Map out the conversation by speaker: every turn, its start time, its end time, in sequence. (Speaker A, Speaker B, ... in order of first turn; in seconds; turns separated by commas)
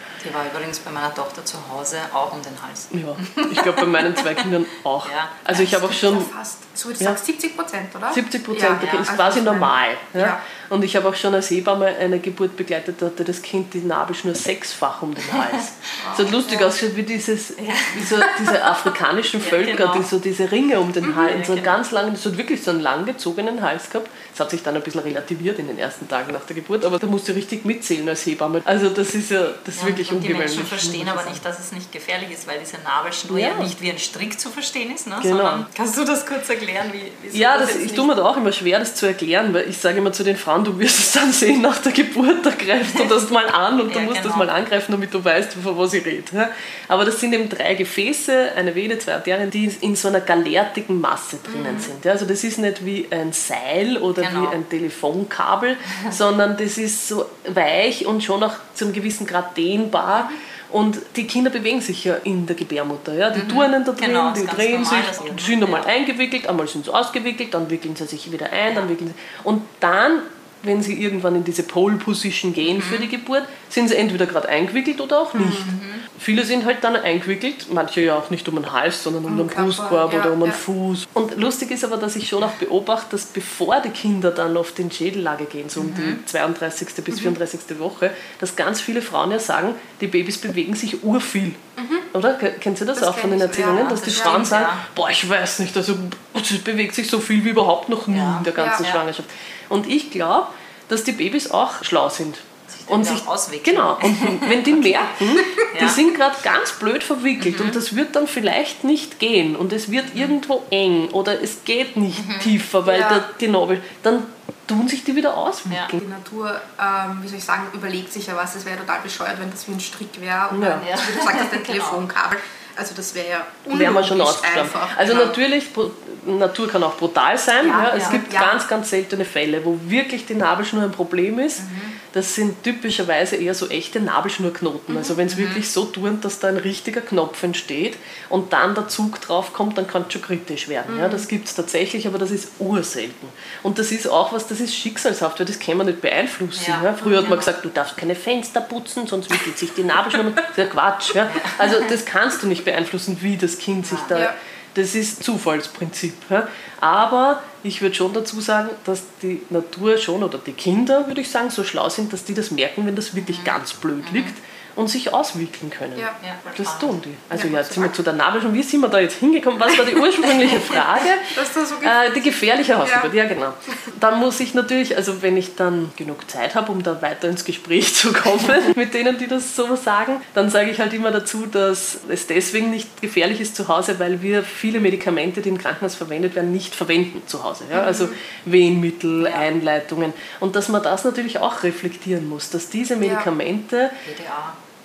Speaker A: 0.2-4.4, Speaker B: 2.9-6.3, Speaker A: 5.0-5.6, Speaker C: 5.5-10.4, Speaker B: 8.1-31.4, Speaker C: 16.0-16.7, Speaker A: 17.6-18.3, Speaker A: 19.4-20.1, Speaker A: 21.0-21.7, Speaker A: 29.7-38.3, Speaker B: 33.3-33.7, Speaker B: 35.2-35.6, Speaker B: 37.3-91.6, Speaker A: 43.9-44.5, Speaker C: 51.5-51.9, Speaker A: 54.2-54.6, Speaker A: 63.3-65.9, Speaker A: 72.7-73.1, Speaker C: 75.3-75.7, Speaker A: 75.6-76.1, Speaker C: 79.3-80.6, Speaker A: 85.8-86.2, Speaker C: 91.8-92.1, Speaker B: 92.1-116.0, Speaker C: 92.9-94.4, Speaker A: 93.5-94.8, Speaker A: 98.1-99.0, Speaker C: 98.5-98.9, Speaker A: 102.7-105.1, Speaker A: 105.7-106.0, Speaker A: 107.4-107.8, Speaker A: 112.2-112.5, Speaker C: 112.8-113.2, Speaker A: 115.7-115.9, Speaker C: 115.9-125.3, Speaker B: 120.5-120.8, Speaker A: 120.7-122.0, Speaker B: 123.7-193.9, Speaker C: 127.6-128.6, Speaker A: 127.8-128.2, Speaker A: 131.6-132.0, Speaker A: 135.2-135.6, Speaker C: 140.9-141.3, Speaker A: 146.5-147.5, Speaker C: 147.0-147.4, Speaker A: 151.3-151.8, Speaker A: 153.8-154.2, Speaker A: 163.2-164.3, Speaker A: 166.2-167.0, Speaker C: 167.3-167.9, Speaker C: 171.3-172.2, Speaker C: 172.8-173.1, Speaker C: 187.7-188.1, Speaker A: 189.2-189.4, Speaker C: 193.0-193.3, Speaker A: 194.0-194.6